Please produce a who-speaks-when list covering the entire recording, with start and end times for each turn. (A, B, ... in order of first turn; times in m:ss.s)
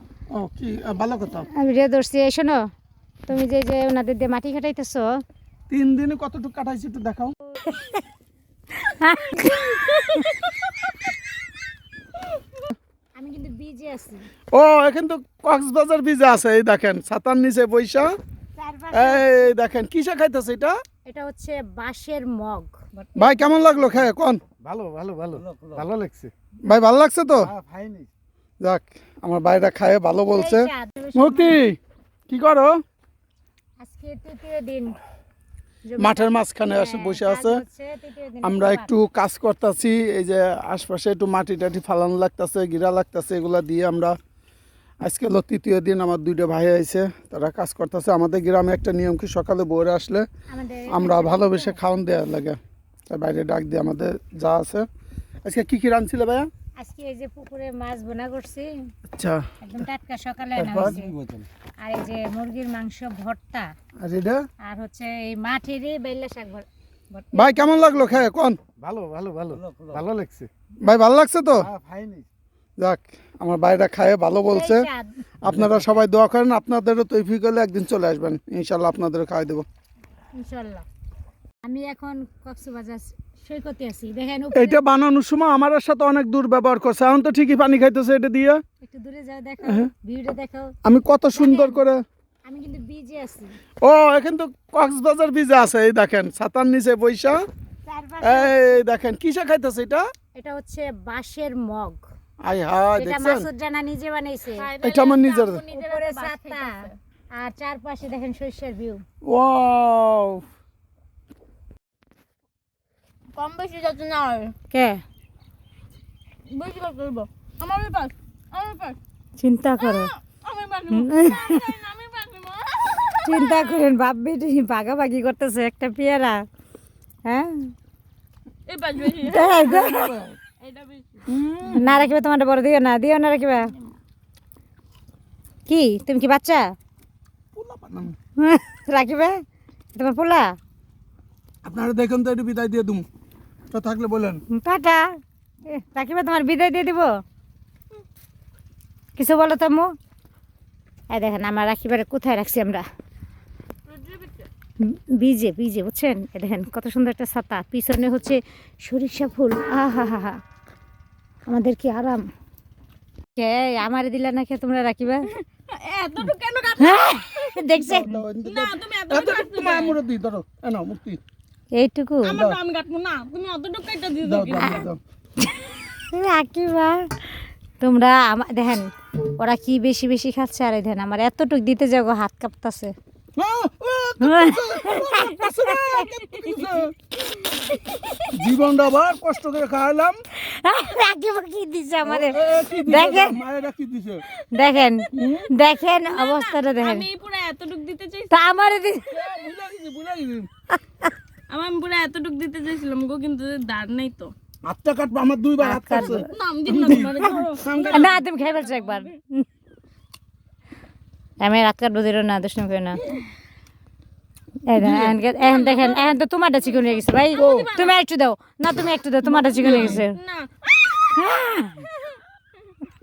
0:00.3-0:01.5 A
0:01.5-0:02.6 B
0:03.3-0:05.1 B
0:05.7-0:07.4 A
0:07.6-0:08.0 B
0:08.8-0:10.4 B
0:13.2-0:14.3 B
0:14.5-0:18.1 A
0:18.6-0:19.5 B
0:18.9-0:20.8 A
0:21.1-0:23.8 B
0:23.2-0:24.4 A
0:24.6-0:26.3 C
0:26.6-0:27.5 A
0:27.4-0:28.1 C
0:28.6-0:32.8 A
0:30.3-0:31.6 B
0:33.8-0:35.0 B
0:35.8-0:38.9 B
0:36.0-0:37.6 A
0:38.4-0:44.2 A
0:45.0-0:50.3 A
0:50.5-0:51.8 B
0:50.9-0:54.9 A
0:55.4-0:56.5 A
0:56.8-0:58.7 B
0:59.1-0:59.4 A
0:59.6-1:01.1 B
1:00.6-1:01.0 A
1:01.0-1:01.4 C
1:01.8-1:03.7 B
1:04.0-1:04.4 A
1:04.6-1:08.0 B
1:07.3-1:08.6 A
1:08.8-1:10.5 C
1:10.8-1:11.7 A
1:11.6-1:12.3 C
1:12.8-1:14.9 A
1:14.5-1:15.2 B
1:15.4-1:19.6 A
1:20.4-1:20.8 B
1:21.6-1:24.8 B
1:24.5-1:28.6 A
1:28.8-1:30.7 B
1:29.6-1:29.9 A
1:30.8-1:32.0 A
1:31.3-1:31.8 B
1:32.5-1:33.6 B
1:33.8-1:37.4 A
1:37.9-1:38.8 B
1:38.2-1:40.0 A
1:40.4-1:42.0 B
1:42.4-1:43.5 A
1:43.0-1:44.7 B
1:44.5-1:47.0 D
1:44.8-1:45.6 A
1:45.7-1:49.0 B
1:49.2-1:50.4 A
1:53.3-1:54.5 D
1:54.7-1:55.0 B
1:56.5-1:59.0 D
1:59.4-2:00.1 B
1:59.8-2:03.8 D
2:00.9-2:01.7 B
2:03.2-2:06.4 B
2:07.2-2:07.7 B
2:08.7-2:11.2 D
2:09.2-2:10.1 B
2:09.6-2:10.4 A
2:11.3-2:13.7 B
2:11.6-2:11.9 A
2:15.7-2:16.6 B
2:17.5-2:18.2 A
2:18.4-2:19.4 B
2:19.9-2:20.6 B
2:21.6-2:23.0 A
2:23.7-2:24.4 A
2:24.5-2:27.2 B
2:29.2-2:29.9 B
2:31.1-2:32.8 B
2:33.9-2:34.5 D
2:34.8-2:40.4 B
2:41.5-2:42.3 B
2:43.4-2:45.3 B
2:45.3-2:47.6 D
2:46.8-2:48.2 B
2:47.7-2:51.2 A
2:48.4-2:50.0 D
2:51.8-2:52.4 B
2:52.2-2:54.9 D
2:52.3-2:52.6 A
2:54.2-2:55.0 A
2:55.4-2:57.1 B
2:57.8-3:02.9 B
3:03.4-3:06.9 A
3:04.2-3:06.0 B
3:08.3-3:10.2 A
3:10.4-3:13.4 B
3:12.0-3:14.2 A
3:14.5-3:17.0 B
3:15.1-3:15.5 A
3:16.0-3:18.3 D
3:18.3-3:19.1 B
3:19.1-3:20.5 A
3:21.5-3:24.3 D
3:24.6-3:28.1 A
3:25.6-3:26.3 B
3:26.3-3:29.2 D
3:27.9-3:29.4 B
3:31.4-3:33.0 B
3:34.7-3:40.2 B
3:34.8-3:35.2 A
3:35.4-3:38.0 D
3:37.4-3:37.7 A
3:39.2-3:40.0 A
3:39.6-3:41.4 D
3:41.1-3:41.9 B